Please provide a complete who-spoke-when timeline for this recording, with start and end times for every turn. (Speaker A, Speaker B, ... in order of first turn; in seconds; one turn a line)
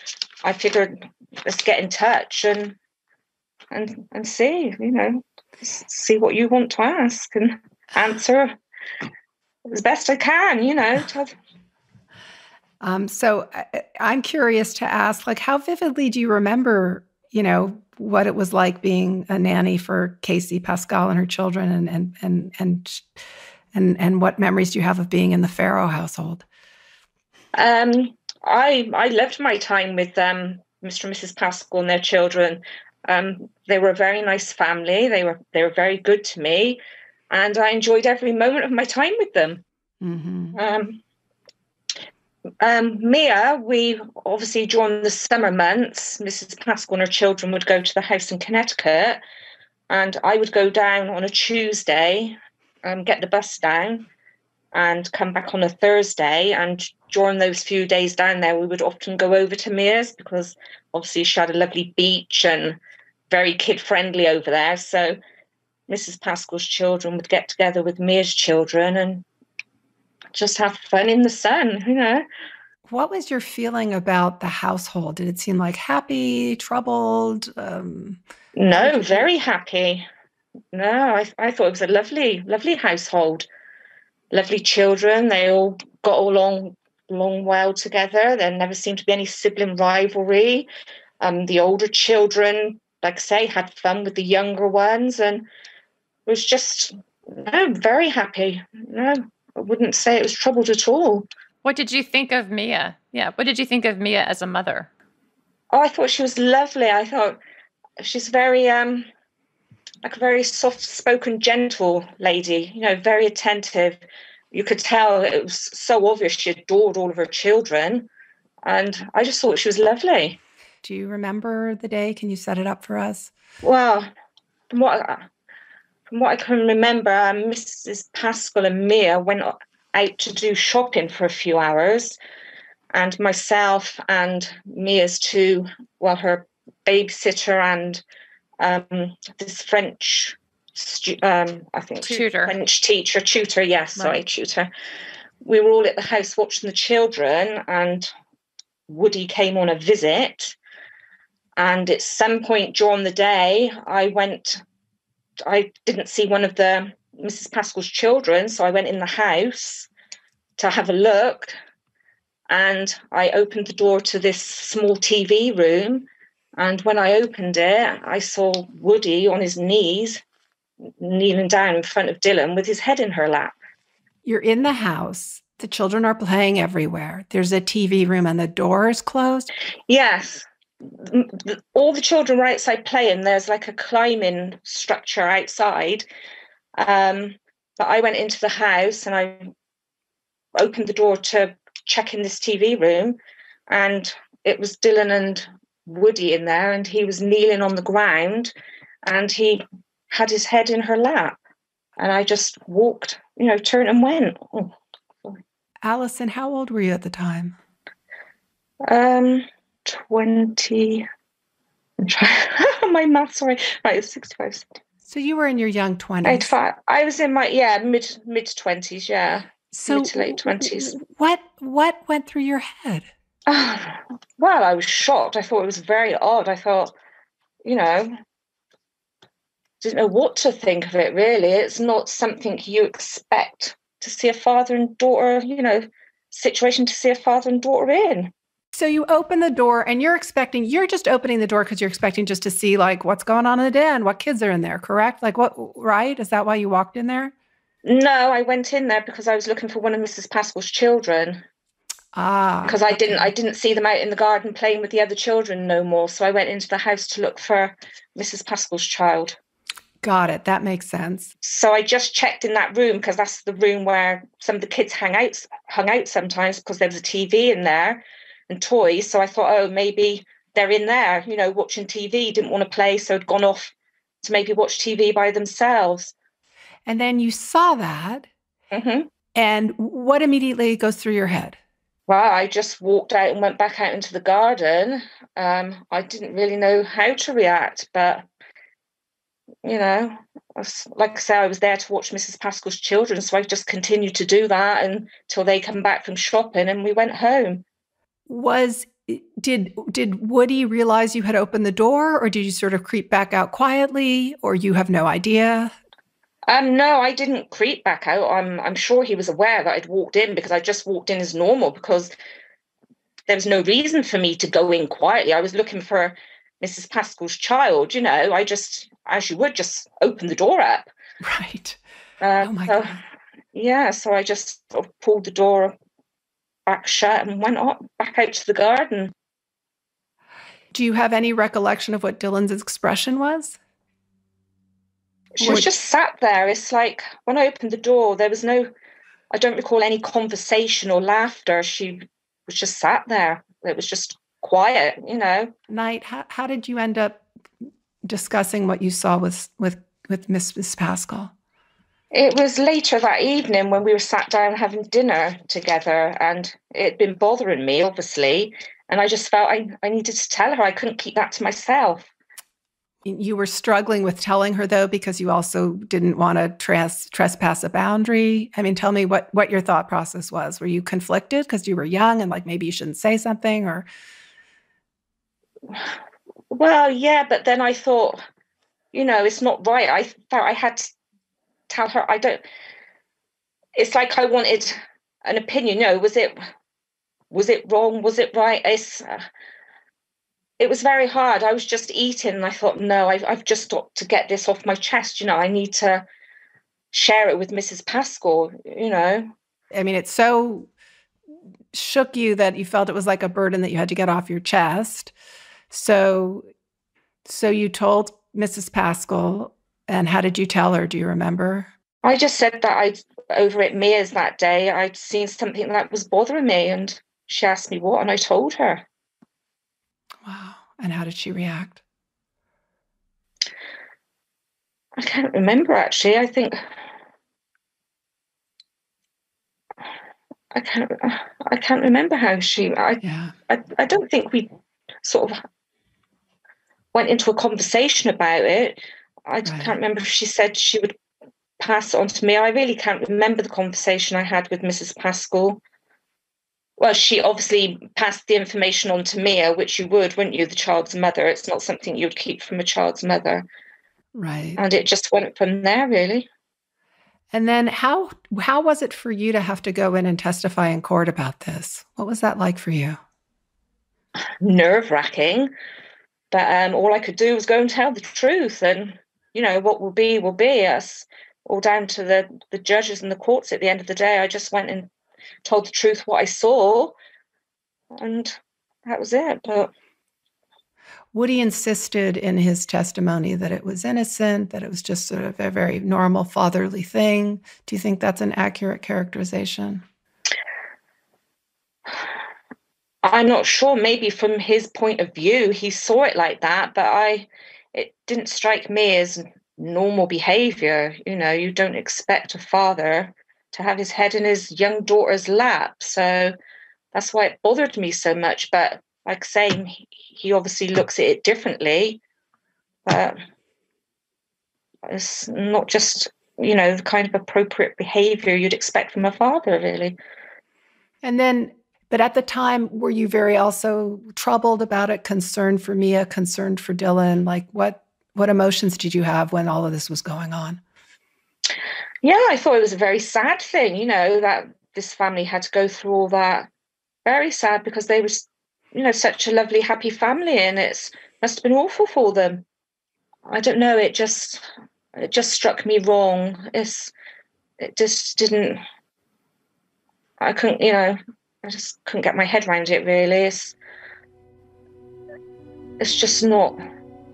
Speaker A: 0.4-2.8
Speaker A: 3.7-8.5
Speaker A: 9.7-11.3
Speaker B: 12.8-23.0
Speaker B: 23.7-26.4
Speaker A: 27.5-36.8
Speaker A: 37.3-39.6
Speaker B: 40.0-40.5
Speaker A: 40.5-41.0
Speaker A: 42.6-49.2
Speaker A: 49.9-54.1
Speaker A: 54.7-62.8
Speaker A: 63.3-65.2
Speaker A: 65.9-69.2
Speaker A: 70.3-72.2
Speaker B: 72.9-79.3
Speaker A: 78.5-80.0
Speaker A: 80.7-83.5
Speaker A: 84.3-90.7
Speaker A: 91.2-95.5
Speaker A: 96.3-101.3
Speaker C: 101.6-104.9
Speaker A: 105.7-107.4
Speaker A: 108.0-109.1
Speaker A: 110.0-118.1
Speaker A: 118.6-120.4
Speaker B: 120.8-123.3
Speaker A: 123.6-124.1
Speaker A: 124.7-125.2
Speaker A: 126.1-132.2
Speaker A: 132.9-138.0
Speaker A: 138.6-144.7
Speaker C: 142.0-142.5
Speaker A: 145.4-148.1
Speaker A: 148.9-150.6
Speaker A: 151.6-154.6
Speaker A: 155.4-159.9
Speaker A: 160.6-161.5
Speaker A: 162.5-170.2
Speaker A: 171.0-173.5
Speaker B: 174.2-179.5
Speaker A: 179.9-186.0
Speaker A: 186.8-189.5
Speaker A: 190.6-193.2
Speaker A: 193.7-198.5
Speaker A: 199.1-201.4
Speaker A: 202.0-204.7
Speaker B: 205.8-207.6
Speaker A: 208.9-211.1
Speaker A: 212.0-214.8
Speaker B: 215.1-216.5
Speaker A: 216.2-220.9
Speaker B: 219.7-223.1
Speaker A: 223.5-226.9
Speaker A: 227.6-228.1
Speaker A: 229.8-238.3
Speaker B: 238.7-247.3
Speaker A: 247.8-251.4
Speaker B: 252.1-253.2
Speaker A: 252.7-259.4
Speaker B: 260.0-261.3
Speaker A: 261.4-276.1
Speaker B: 276.9-278.3
Speaker A: 278.7-279.1
Speaker B: 279.3-281.6
Speaker A: 282.1-288.2
Speaker A: 289.6-297.6
Speaker B: 298.3-305.7
Speaker A: 306.5-312.1
Speaker A: 313.3-320.9
Speaker B: 321.2-321.8
Speaker A: 322.2-323.0
Speaker B: 322.4-322.8
Speaker A: 323.5-325.8
Speaker A: 326.7-329.1
Speaker B: 330.7-333.6
Speaker A: 335.4-338.7
Speaker B: 335.4-335.7
Speaker A: 339.3-345.5
Speaker B: 345.7-347.2
Speaker B: 348.1-351.3
Speaker A: 352.1-362.1
Speaker B: 363.0-373.9
Speaker A: 375.7-375.9
Speaker A: 376.5-378.2
Speaker A: 378.9-380.9
Speaker A: 381.7-382.4
Speaker A: 383.8-386.4
Speaker A: 387.3-389.2
Speaker A: 390.6-396.1
Speaker A: 396.9-399.3
Speaker B: 399.7-400.7
Speaker B: 401.7-405.1
Speaker B: 405.7-406.4
Speaker B: 407.2-411.7
Speaker A: 412.0-418.9
Speaker B: 420.2-421.8
Speaker A: 425.0-426.6
Speaker A: 430.5-434.5
Speaker B: 433.0-433.3
Speaker A: 435.0-435.4
Speaker A: 436.9-440.9
Speaker B: 439.5-439.7
Speaker A: 441.6-445.6
Speaker A: 446.8-453.4
Speaker B: 454.1-454.6
Speaker A: 454.6-456.3
Speaker B: 457.3-463.0
Speaker A: 464.4-465.5
Speaker A: 466.3-474.9
Speaker A: 475.4-476.9
Speaker A: 478.0-479.7
Speaker B: 481.1-489.8
Speaker A: 493.0-506.3
Speaker A: 506.9-512.0
Speaker A: 512.9-513.2
Speaker A: 514.9-520.0
Speaker B: 521.0-530.6
Speaker A: 532.0-536.5
Speaker A: 537.0-542.4
Speaker A: 543.3-544.5
Speaker A: 545.0-546.9
Speaker A: 547.6-548.6
Speaker A: 550.2-553.5
Speaker A: 555.8-556.6